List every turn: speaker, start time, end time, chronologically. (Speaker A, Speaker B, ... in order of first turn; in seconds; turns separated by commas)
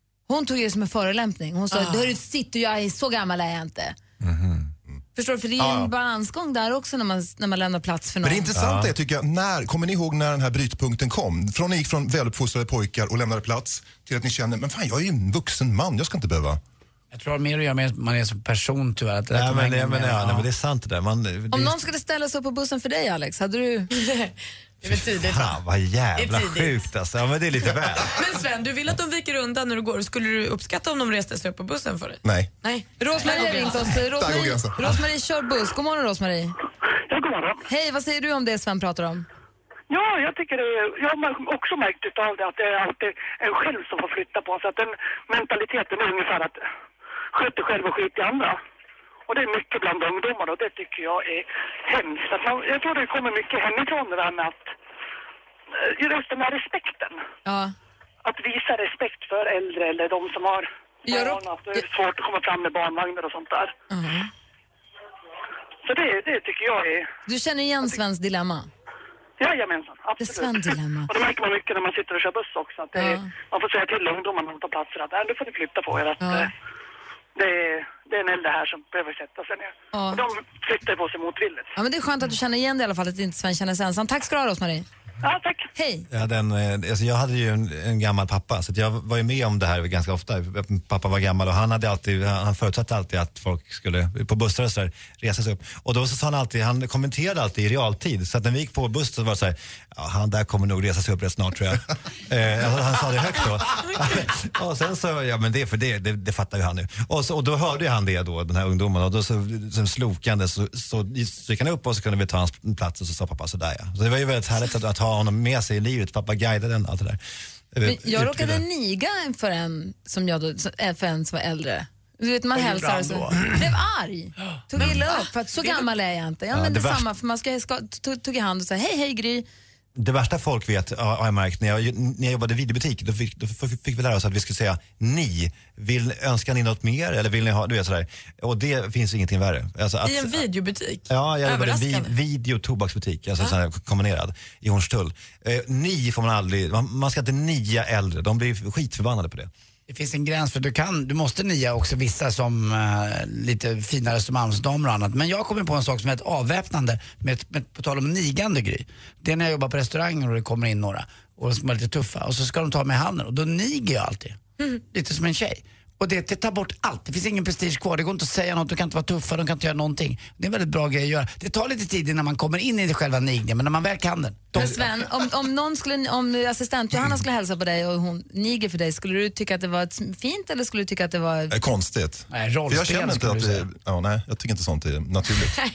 Speaker A: 0.3-4.0, Speaker B: 4.2-4.6, Speaker A: 5.2-8.5, Speaker C: 5.6-5.9, Speaker C: 8.2-16.6, Speaker B: 8.5-8.9, Speaker D: 17.1-20.4, Speaker B: 19.3-21.8, Speaker A: 21.5-23.9, Speaker E: 24.0-24.3, Speaker E: 24.8-25.5, Speaker B: 24.8-28.1, Speaker E: 26.2-26.7, Speaker E: 28.1-34.0, Speaker C: 32.2-32.5, Speaker A: 33.0-36.5, Speaker C: 33.3-35.0, Speaker F: 37.1-37.6, Speaker A: 37.6-39.2, Speaker F: 39.9-46.6, Speaker F: 47.3-48.6, Speaker F: 49.3-54.7, Speaker F: 55.7-57.2, Speaker A: 57.4-57.7, Speaker F: 58.2-63.7, Speaker A: 61.0-61.8, Speaker A: 63.9-64.3, Speaker F: 65.8-67.1, Speaker A: 67.2-68.7, Speaker F: 69.4-76.5, Speaker A: 70.2-71.1, Speaker A: 72.9-73.3, Speaker A: 76.2-76.5, Speaker F: 77.3-81.7, Speaker A: 79.9-80.2, Speaker A: 81.8-84.8, Speaker F: 85.2-85.7, Speaker A: 85.7-86.1, Speaker B: 86.1-117.2, Speaker B: 117.7-118.6, Speaker A: 117.8-129.5, Speaker D: 122.5-123.5, Speaker B: 124.8-125.0, Speaker B: 126.5-127.0, Speaker B: 129.9-140.4, Speaker E: 140.0-142.1, Speaker B: 141.1-149.5, Speaker D: 149.9-174.9, Speaker A: 174.5-181.6, Speaker C: 181.5-185.6, Speaker D: 182.3-183.7